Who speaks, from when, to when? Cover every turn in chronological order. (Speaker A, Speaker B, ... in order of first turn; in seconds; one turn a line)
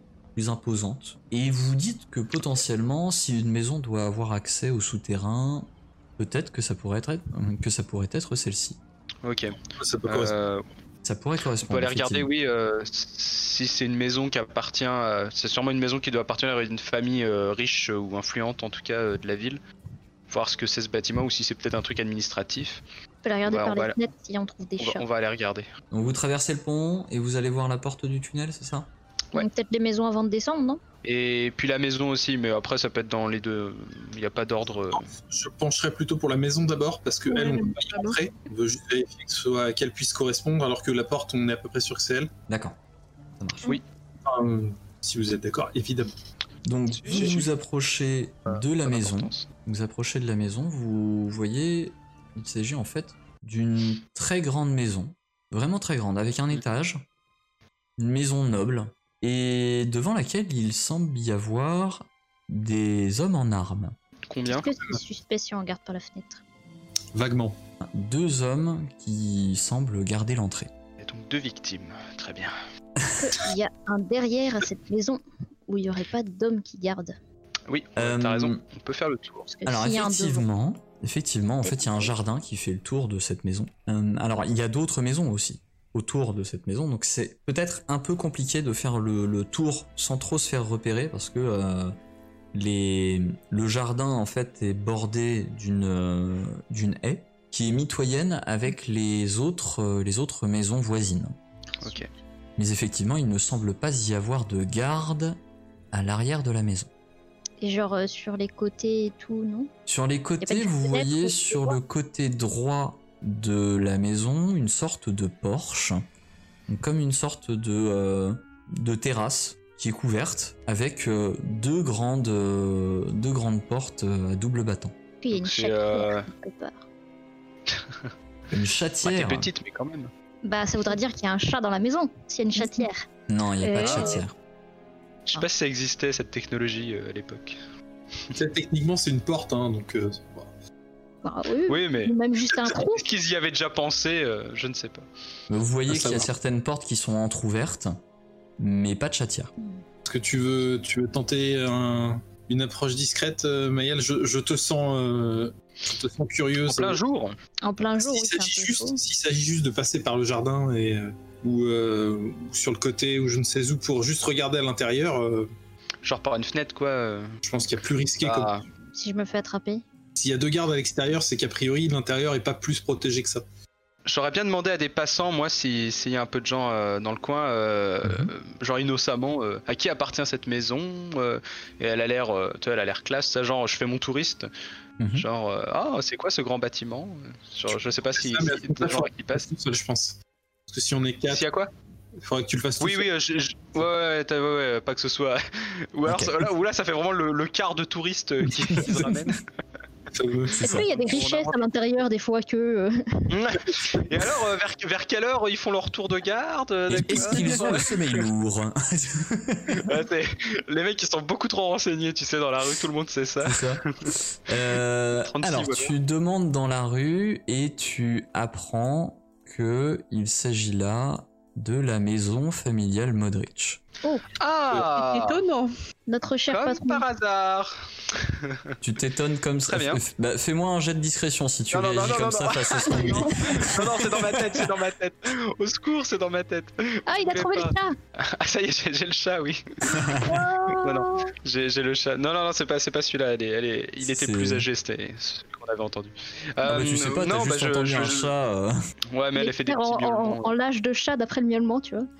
Speaker A: 0.3-8.8
Speaker B: 9.2-10.7
Speaker C: 9.8-10.3
Speaker A: 11.0-12.3
Speaker B: 11.7-19.6
Speaker B: 20.3-22.8
Speaker D: 23.2-25.0
Speaker B: 23.4-24.0
Speaker B: 24.8-25.7
Speaker A: 25.9-28.9
Speaker D: 29.3-30.8
Speaker B: 31.0-35.1
Speaker C: 35.1-42.3
Speaker E: 37.3-38.2
Speaker A: 42.5-42.8
Speaker A: 43.4-43.8
Speaker C: 44.2-46.1
Speaker A: 46.6-57.0
Speaker B: 46.9-47.5
Speaker B: 48.5-49.5
Speaker A: 58.0-64.0
Speaker B: 64.3-64.7
Speaker D: 64.5-66.4
Speaker C: 67.1-67.5
Speaker A: 67.8-70.7
Speaker B: 71.0-72.5
Speaker A: 73.0-73.3
Speaker D: 73.2-77.1
Speaker B: 77.7-79.5
Speaker A: 78.0-78.6
Speaker D: 79.5-80.5
Speaker A: 79.7-92.0
Speaker A: 92.5-101.3
Speaker B: 101.8-102.1
Speaker A: 102.6-105.4
Speaker A: 105.9-106.9
Speaker D: 107.6-109.7
Speaker A: 109.9-116.0
Speaker D: 110.4-111.8
Speaker A: 116.7-124.9
Speaker D: 125.2-126.8
Speaker B: 125.3-126.3
Speaker B: 127.7-128.1
Speaker A: 128.5-129.5
Speaker B: 129.0-130.1
Speaker D: 130.4-133.1
Speaker A: 133.3-134.3
Speaker E: 133.6-134.2
Speaker B: 133.8-134.2
Speaker B: 135.3-137.6
Speaker C: 138.3-140.5
Speaker D: 141.2-143.0
Speaker B: 141.7-145.1
Speaker A: 145.5-148.0
Speaker C: 145.9-146.3
Speaker A: 148.6-149.5
Speaker D: 149.6-149.8
Speaker C: 150.0-157.0
Speaker B: 156.7-157.4
Speaker D: 157.6-159.0
Speaker C: 158.0-165.5
Speaker B: 166.0-167.4
Speaker C: 167.4-168.5
Speaker B: 168.2-168.6
Speaker D: 168.9-169.8
Speaker C: 170.2-173.4
Speaker B: 174.1-184.5
Speaker A: 178.0-178.3
Speaker A: 185.0-185.2
Speaker B: 185.1-189.5
Speaker C: 188.1-191.4
Speaker B: 191.3-191.7
Speaker C: 192.2-193.1
Speaker B: 192.8-199.4
Speaker A: 196.1-196.5
Speaker C: 198.6-199.2
Speaker C: 200.1-200.7
Speaker A: 200.5-200.9
Speaker D: 200.6-203.4
Speaker B: 200.6-201.6
Speaker B: 203.3-208.3
Speaker A: 206.9-209.8
Speaker D: 207.2-207.5
Speaker B: 209.7-214.1
Speaker A: 213.4-223.8
Speaker B: 215.2-215.9
Speaker B: 224.4-225.4
Speaker E: 225.0-225.7
Speaker D: 226.1-227.0
Speaker B: 226.5-228.7
Speaker A: 228.8-234.5
Speaker B: 229.7-230.0
Speaker B: 231.7-248.3
Speaker D: 232.9-233.4
Speaker D: 237.1-237.9
Speaker A: 239.9-240.2
Speaker D: 240.2-241.3
Speaker A: 244.0-244.7
Speaker A: 246.6-248.8
Speaker B: 249.1-250.5
Speaker D: 249.3-252.1